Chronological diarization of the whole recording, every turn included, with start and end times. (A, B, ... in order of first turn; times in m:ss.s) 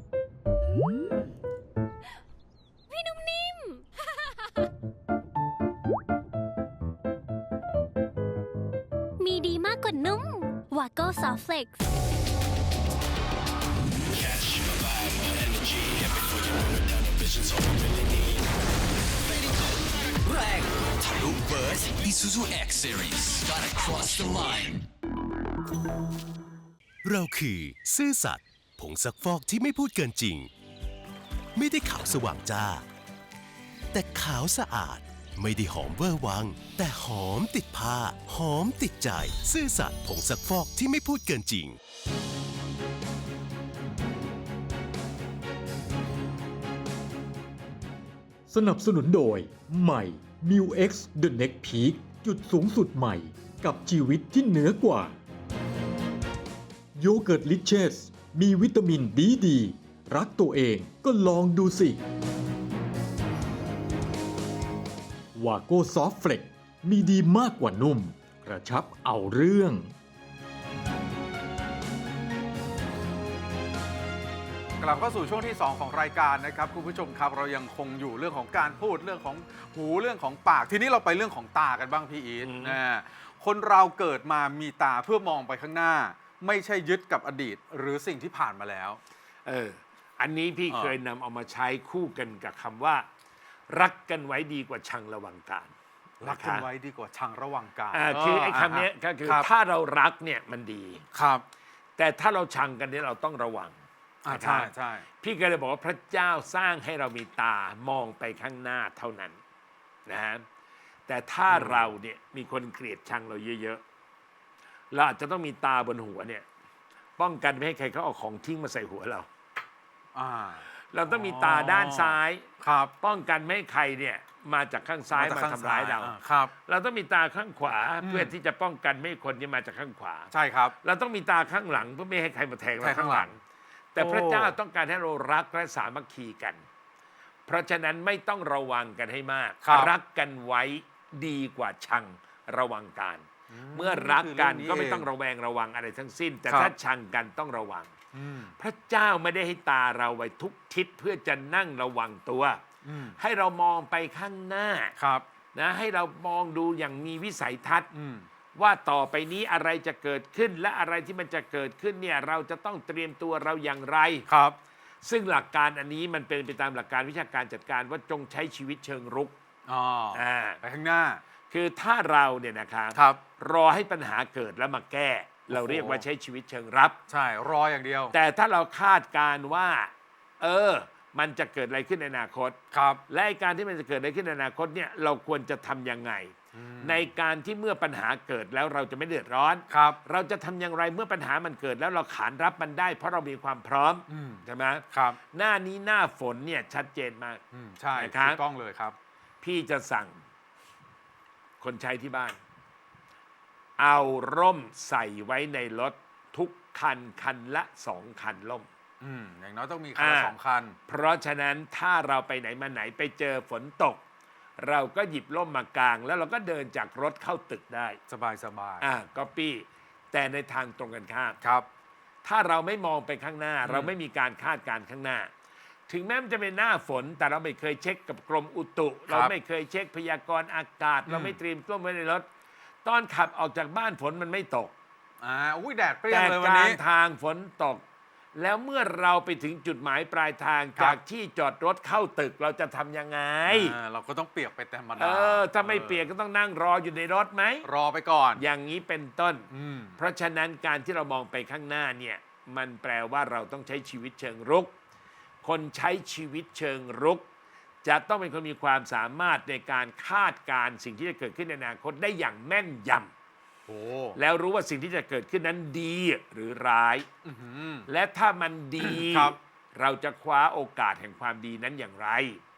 0:02.9-0:04.2 A
0:09.2-0:11.8 A
0:14.1-0:18.4 B
0:20.2-0:24.9 B
0:27.0-0:30.5 C
0:31.5-0:32.8 C
0:33.9-0:41.8 C
0:48.5-0:55.2 D
0:56.9-1:02.0 D
1:05.3-1:09.9 D
1:14.8-1:29.0 E
1:22.4-1:22.8 F
1:29.4-1:33.0 F
1:30.7-1:30.9 E
1:33.7-1:36.6 F
1:36.2-1:39.5 E
1:37.9-1:41.0 F
1:41.1-1:41.4 E
1:42.0-1:43.8 F
1:44.2-1:45.0 E
1:44.3-1:49.4 F
1:50.1-1:50.4 F
1:51.1-1:53.8 F
1:51.5-1:51.9 E
1:54.9-1:56.4 F
1:57.2-1:59.3 F
2:00.1-2:02.9 E
2:00.9-2:02.4 F
2:03.0-2:06.1 F
2:05.1-2:06.5 E
2:06.6-2:10.3 F
2:08.0-2:08.3 E
2:10.3-2:10.7 E
2:10.8-2:13.4 F
2:12.8-2:13.3 E
2:13.9-2:16.6 F
2:14.0-2:14.5 E
2:17.5-2:27.9 F
2:19.6-2:19.9 E
2:23.5-2:25.1 E
2:28.1-2:28.5 E
2:28.6-2:32.6 F
2:32.8-2:33.2 E
2:33.2-2:35.0 F
2:35.0-2:35.2 E
2:35.5-2:37.9 F
2:37.9-2:38.3 E
2:38.6-2:44.2 F
2:44.3-2:44.6 E
2:45.0-2:49.4 F
2:49.7-2:51.2 E
2:50.1-2:50.6 F
2:51.5-2:57.0 F
2:52.9-2:53.2 E
2:55.5-2:56.0 E
2:57.1-2:58.1 E
2:58.1-3:02.6 F
3:02.7-3:03.0 E
3:03.1-3:17.4 F
3:06.5-3:07.0 E
3:09.7-3:10.0 E
3:14.1-3:15.2 E
3:17.5-3:18.9 E
3:17.9-3:18.4 F
3:19.4-3:20.2 F
3:21.6-3:22.4 F
3:23.8-3:28.7 F
3:29.0-3:30.8 E
3:30.0-3:30.3 F
3:30.9-3:34.0 F
3:34.6-3:38.0 F
3:38.1-3:38.8 E
3:38.8-3:41.4 F
3:41.4-3:41.6 E
3:42.2-3:45.3 F
3:43.6-3:43.9 E
3:45.9-3:52.2 F
3:51.1-3:51.4 E
3:52.8-3:54.7 F
3:55.2-3:56.8 E
3:56.1-3:57.8 F
3:58.3-4:03.8 F
4:03.5-4:06.0 E
4:05.0-4:07.7 F
4:07.6-4:08.4 E
4:08.4-4:14.7 F
4:09.5-4:10.0 E
4:15.4-4:17.2 F
4:17.8-4:23.1 F
4:23.7-4:24.2 E
4:24.2-4:27.1 F
4:27.2-4:27.8 E
4:27.9-4:32.4 F
4:28.8-4:29.4 E